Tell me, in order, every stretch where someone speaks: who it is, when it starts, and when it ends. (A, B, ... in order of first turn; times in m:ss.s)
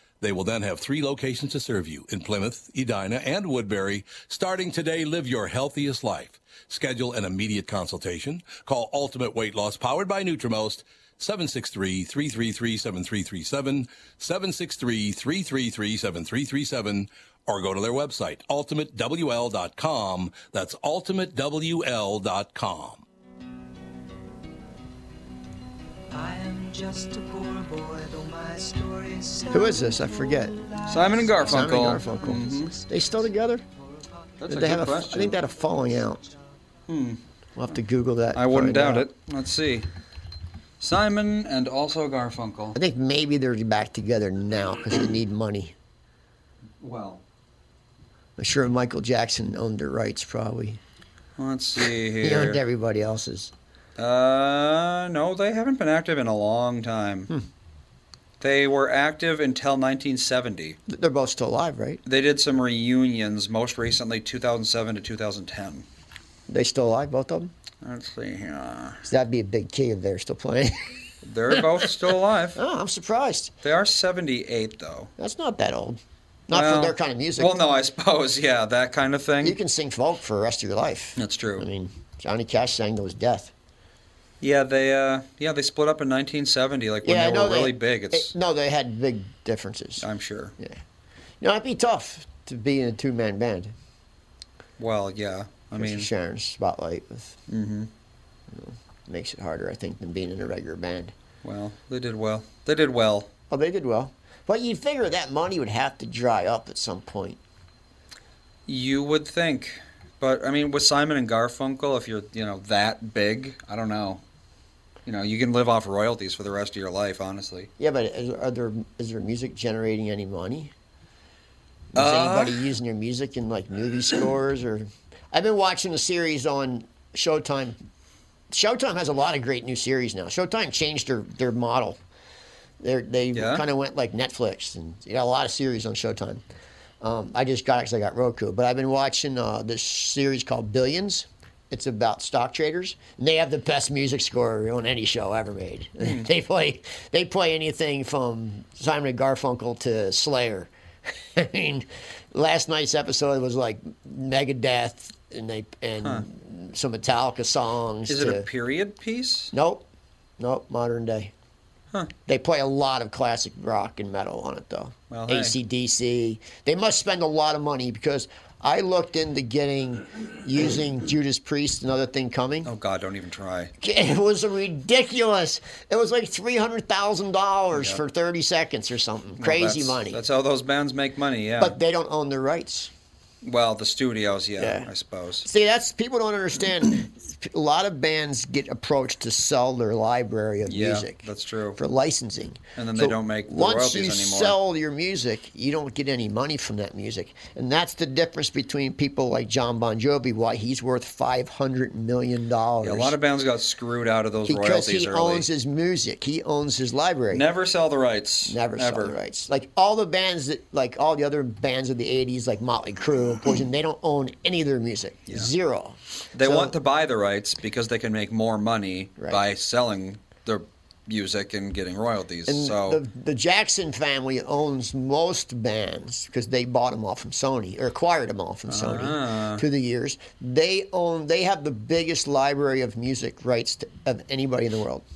0:00.2-0:23.0 A
0:26.2-0:29.5 B
0:29.5-0:30.7 C
0:30.8-0:32.8 D
0:31.3-0:33.6 C
0:34.4-0:35.4 D
0:34.5-0:36.3 C
0:36.9-0:37.2 D
0:37.6-0:39.1 C
0:38.3-0:39.9 D
0:40.8-0:42.8 D
0:42.8-0:45.8 C
0:46.8-0:47.2 D
0:48.4-0:50.8 C
0:51.4-0:52.6 D
0:52.2-0:53.5 C
0:54.0-0:57.3 D
0:58.4-1:00.8 D
1:00.9-1:02.0 C
1:02.1-1:05.9 D
1:06.5-1:07.5 C
1:07.8-1:09.0 D
1:09.0-1:11.9 C
1:11.2-1:12.6 D
1:12.6-1:13.5 C
1:13.6-1:15.1 D
1:15.2-1:17.6 C
1:16.5-1:19.6 D
1:19.4-1:23.5 C
1:21.2-1:21.7 D
1:24.4-1:28.3 D
1:27.0-1:30.1 C
1:30.0-1:30.5 D
1:31.4-1:33.7 C
1:34.8-1:36.1 D
1:35.8-1:37.4 C
1:37.5-1:37.9 D
1:38.5-1:41.1 C
1:41.4-1:43.3 D
1:43.5-1:47.4 C
1:48.7-1:54.2 D
1:55.1-1:57.7 D
1:57.8-2:00.7 C
2:01.9-2:07.8 C
2:02.0-2:02.7 D
2:08.5-2:12.0 C
2:12.8-2:16.4 C
2:13.4-2:13.6 D
2:17.0-2:30.7 C
2:26.0-2:26.3 D
2:31.2-2:38.5 C
2:38.1-2:39.5 D
2:39.5-2:39.9 C
2:40.4-2:41.3 C
2:42.3-2:52.7 C
2:45.1-2:45.6 D
2:52.6-2:53.7 D
2:53.8-3:00.2 C
2:57.7-2:58.0 D
2:59.4-3:01.8 D
3:01.6-3:02.9 C
3:03.4-3:05.5 D
3:04.6-3:04.9 C
3:05.4-3:23.2 C
3:10.7-3:11.8 D
3:12.8-3:14.6 D
3:22.8-3:25.5 D
3:24.5-3:27.5 C
3:27.3-3:29.2 D
3:28.5-3:36.8 C
3:36.3-3:43.0 D
3:42.5-3:55.0 C
3:48.7-3:49.6 D